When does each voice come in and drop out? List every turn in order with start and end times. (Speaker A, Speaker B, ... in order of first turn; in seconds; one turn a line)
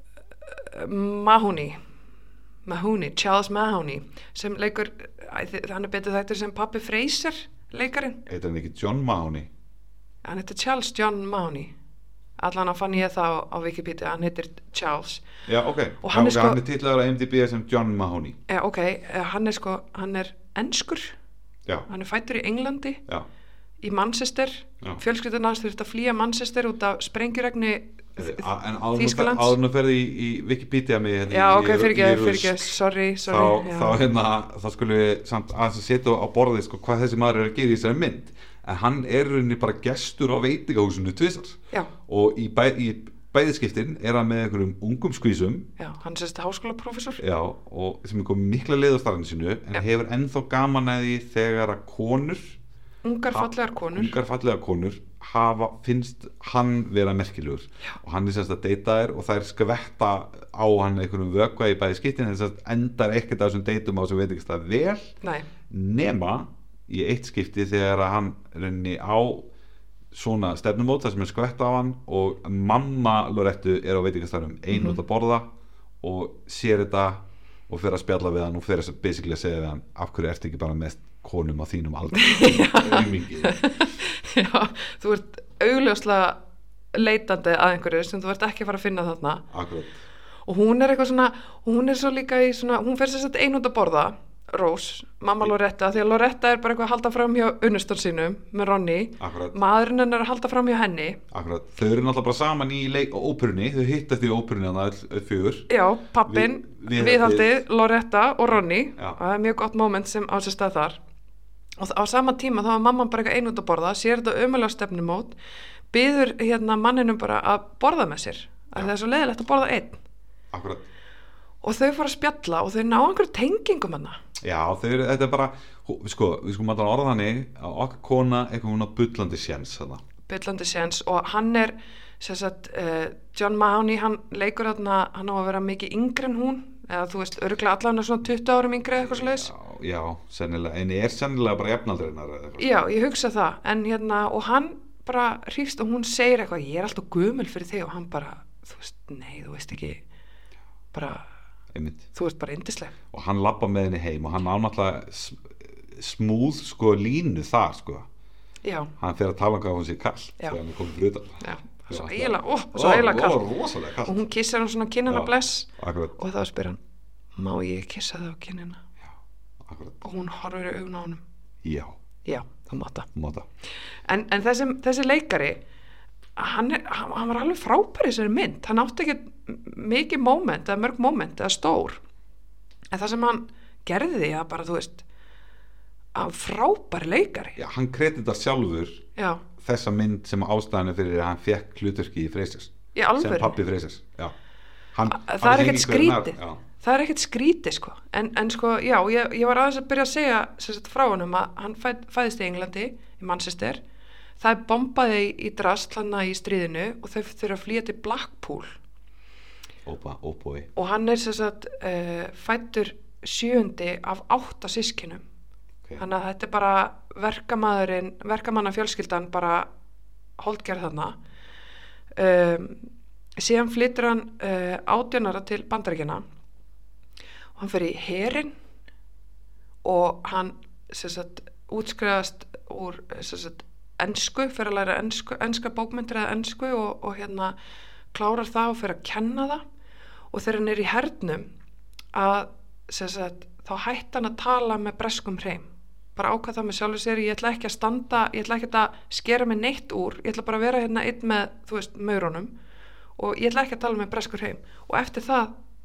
Speaker A: 0.4-1.8
Speaker A: 2.6-8.2
Speaker B: 8.3-9.5
Speaker A: 10.2-11.7
Speaker A: 12.4-15.2
Speaker B: 15.5-18.4
Speaker A: 16.0-16.6
Speaker A: 18.5-21.1
Speaker A: 21.9-23.0
Speaker A: 23.8-29.6
Speaker B: 28.2-32.7
Speaker A: 31.3-34.0
Speaker B: 33.3-45.7
Speaker A: 45.8-47.2
Speaker B: 47.2-52.6
Speaker A: 53.0-54.2
Speaker B: 53.3-65.1
Speaker B: 65.7-69.5
Speaker B: 70.1-75.5
Speaker A: 74.7-75.0
Speaker B: 76.0-83.9
Speaker A: 82.2-86.4
Speaker A: 86.9-89.4
Speaker B: 89.5-90.0
Speaker A: 90.5-101.2
Speaker B: 99.2-99.6
Speaker B: 101.3-105.7
Speaker A: 105.7-111.0
Speaker B: 106.3-107.6
Speaker A: 111.8-115.3
Speaker A: 115.9-120.0
Speaker B: 120.5-120.9
Speaker A: 121.6-124.2
Speaker B: 124.4-130.0
Speaker A: 130.3-139.5
Speaker B: 139.0-142.9
Speaker A: 142.6-150.0
Speaker A: 150.9-151.3
Speaker B: 151.7-152.1
Speaker A: 152.1-153.0
Speaker B: 153.1-158.1
Speaker A: 158.6-158.9
Speaker B: 159.0-164.2
Speaker A: 161.4-163.4
Speaker A: 164.1-166.8
Speaker B: 165.1-166.2
Speaker A: 167.3-168.8
Speaker B: 169.6-170.0
Speaker A: 170.0-171.2
Speaker B: 171.6-172.0
Speaker A: 172.2-173.1
Speaker B: 173.1-173.5
Speaker A: 174.0-175.6
Speaker A: 176.4-182.0
Speaker A: 182.9-185.0
Speaker A: 186.1-187.6
Speaker B: 187.6-189.1
Speaker A: 189.2-189.4
Speaker B: 189.6-194.3
Speaker A: 192.9-193.6
Speaker B: 194.9-196.6
Speaker A: 195.1-203.8
Speaker A: 204.4-208.8
Speaker B: 209.9-210.7
Speaker A: 210.8-215.2
Speaker A: 216.0-219.7
Speaker A: 220.4-221.2
Speaker A: 222.1-222.8
Speaker A: 223.4-226.2
Speaker A: 227.6-228.5
Speaker A: 229.8-237.6
Speaker A: 238.1-239.6
Speaker A: 240.3-241.5
Speaker A: 242.1-252.5
Speaker A: 253.2-255.5